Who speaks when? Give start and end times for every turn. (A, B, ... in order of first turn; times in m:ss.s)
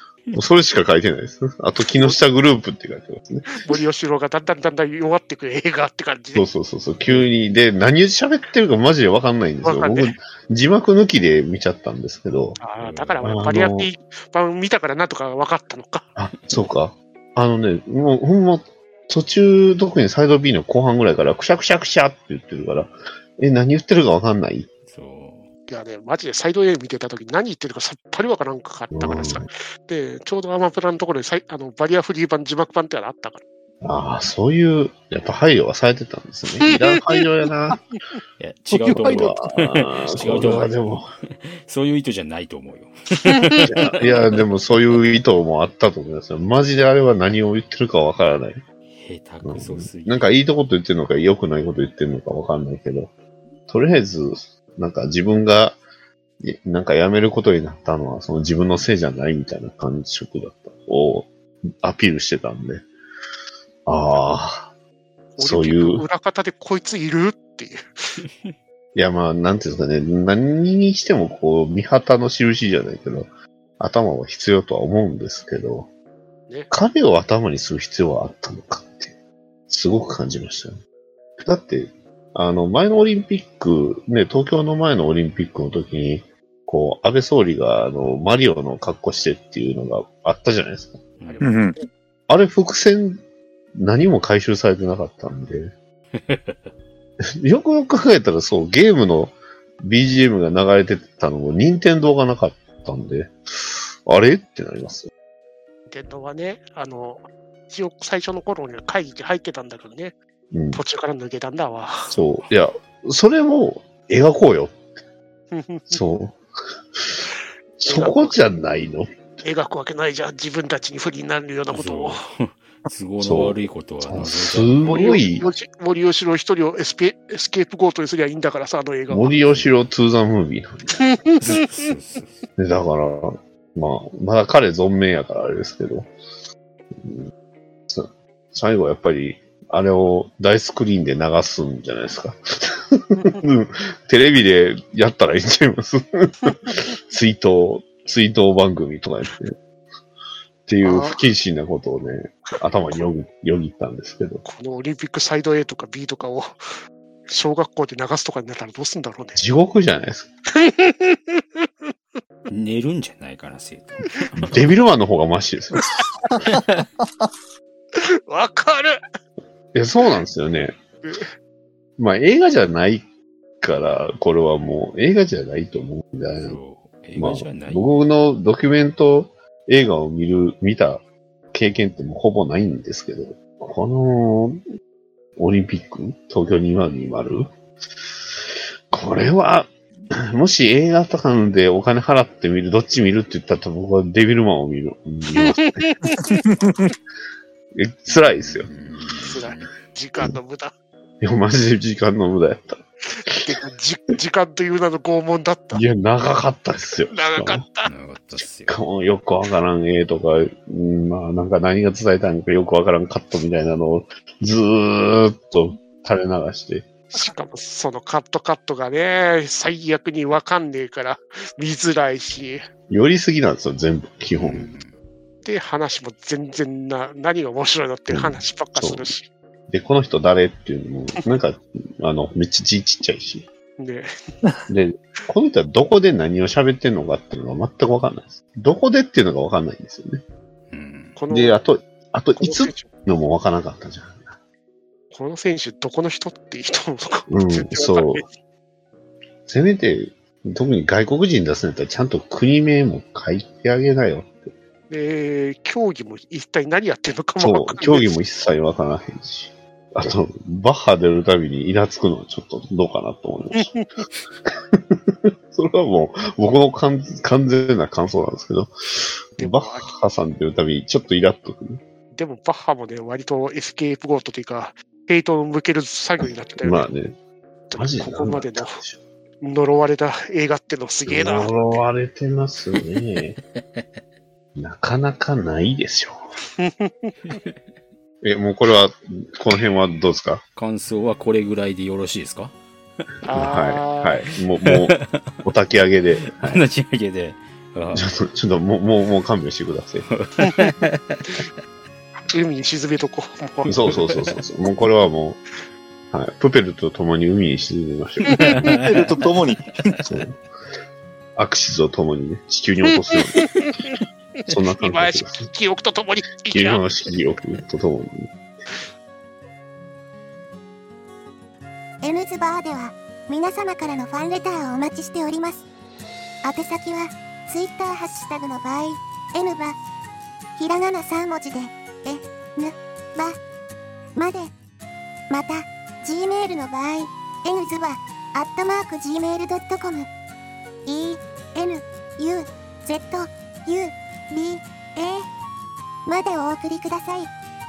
0:00.3-0:03.6 A
0:03.6-0:06.5 B
0:06.3-0:12.6 A
0:09.6-0:10.2 B
0:12.6-0:16.0 B
0:12.8-0:13.3 C
0:13.2-0:13.9 A
0:16.2-0:24.7 A
0:24.9-0:25.5 C
0:25.7-0:33.4 B
0:28.9-0:29.5 A
0:33.8-0:37.8 A
0:36.6-0:37.0 B
0:38.4-0:41.0 C
0:38.7-0:40.3 D
0:39.0-0:41.1 A
0:41.5-0:44.5 C
0:43.7-0:48.6 A
0:48.9-0:50.2 C
0:49.4-0:53.1 A
0:53.7-0:55.8 A
0:56.4-1:02.8 A
1:03.8-1:04.7 A
1:05.4-1:07.8 B
1:05.4-1:06.1 A
1:08.9-1:15.9 A
1:16.7-1:19.2 A
1:19.7-1:20.8 A
1:21.4-1:31.0 A
1:31.2-1:31.5 C
1:31.4-1:31.8 D
1:32.3-1:33.2 A
1:33.8-1:35.7 A
1:36.2-1:36.7 C
1:37.4-1:45.1 A
1:45.9-1:50.1 B
1:50.5-1:50.8 A
1:50.7-1:52.2 B
1:52.1-1:54.8 A
1:55.5-1:56.0 B
1:55.9-1:56.4 A
1:57.0-1:57.2 A
1:57.8-1:59.1 A
1:57.8-1:58.4 B
1:59.4-2:02.2 B
2:01.7-2:05.2 C
2:03.2-2:05.5 A
2:04.8-2:09.4 B
2:09.1-2:11.2 A
2:09.5-2:09.7 C
2:10.9-2:11.4 B
2:11.4-2:12.4 C
2:12.6-2:16.1 A
2:17.0-2:17.3 A
2:17.9-2:29.6 A
2:26.5-2:26.7 B
2:30.7-2:34.4 A
2:30.8-2:31.2 B
2:32.8-2:33.1 B
2:34.4-2:36.5 B
2:37.3-2:39.4 B
2:39.4-2:40.3 A
2:40.6-2:41.9 B
2:42.5-2:44.6 C
2:44.3-2:45.8 A
2:45.8-2:46.3 B
2:48.3-2:49.0 B
2:49.7-2:50.8 A
2:51.0-2:51.3 B
2:52.0-2:53.0 A
2:53.6-2:56.6 A
2:56.4-2:57.8 C
2:57.2-3:04.6 A
3:05.4-3:07.5 A
3:08.9-3:15.8 A
3:15.4-3:16.6 B
3:17.7-3:18.7 A
3:18.1-3:19.7 C
3:19.3-3:20.7 B
3:21.2-3:23.4 A
3:23.2-3:25.8 B
3:25.7-3:27.6 A
3:27.1-3:27.9 B
3:27.8-3:28.8 C
3:28.7-3:36.9 A
3:37.1-3:42.6 B
3:42.9-3:44.7 A
3:44.3-3:44.9 C
3:45.4-3:49.3 B
3:48.1-3:49.1 A
3:49.7-3:53.5 A
3:53.8-3:54.1 B
3:54.7-4:00.2 A
4:00.7-4:01.2 C
4:01.2-4:01.6 B
4:01.3-4:04.4 A
4:02.3-4:02.9 B
4:05.1-4:08.2 B
4:07.3-4:08.2 A
4:09.5-4:14.5 A
4:14.9-4:18.1 B
4:17.4-4:23.8 A
4:23.5-4:23.9 B
4:25.5-4:31.8 A
4:29.4-4:29.9 B
4:32.1-4:36.9 B
4:36.2-4:37.2 A
4:37.7-4:38.8 B
4:37.7-4:39.0 A
4:39.4-4:41.8 B
4:41.1-4:43.4 A
4:43.6-4:43.8 C
4:44.6-4:46.2 A
4:46.6-4:47.1 B
4:47.2-4:47.6 C
4:48.2-4:50.4 A
4:50.6-4:53.3 C
4:53.2-4:54.2 B
4:53.3-4:56.6 A
4:54.6-4:55.4 C
4:56.2-4:58.1 C
4:57.9-5:00.0 A
5:00.0-5:01.4 C
5:02.3-5:03.7 B
5:03.6-5:04.4 C
5:03.7-5:05.4 A
5:06.1-5:08.5 A
5:08.2-5:08.5 B
5:08.3-5:09.3 C
5:08.8-5:09.7 D
5:10.0-5:10.4 A
5:11.4-5:13.5 A
5:13.6-5:13.9 B
5:14.5-5:15.5 A
5:14.8-5:16.9 B
5:16.5-5:18.3 A
5:22.0-5:25.6 E
5:26.4-5:29.8 E
5:30.6-5:33.4 E
5:34.2-5:34.5 E
5:35.3-5:40.1 E
5:40.8-5:45.2 E
5:46.0-5:47.3 E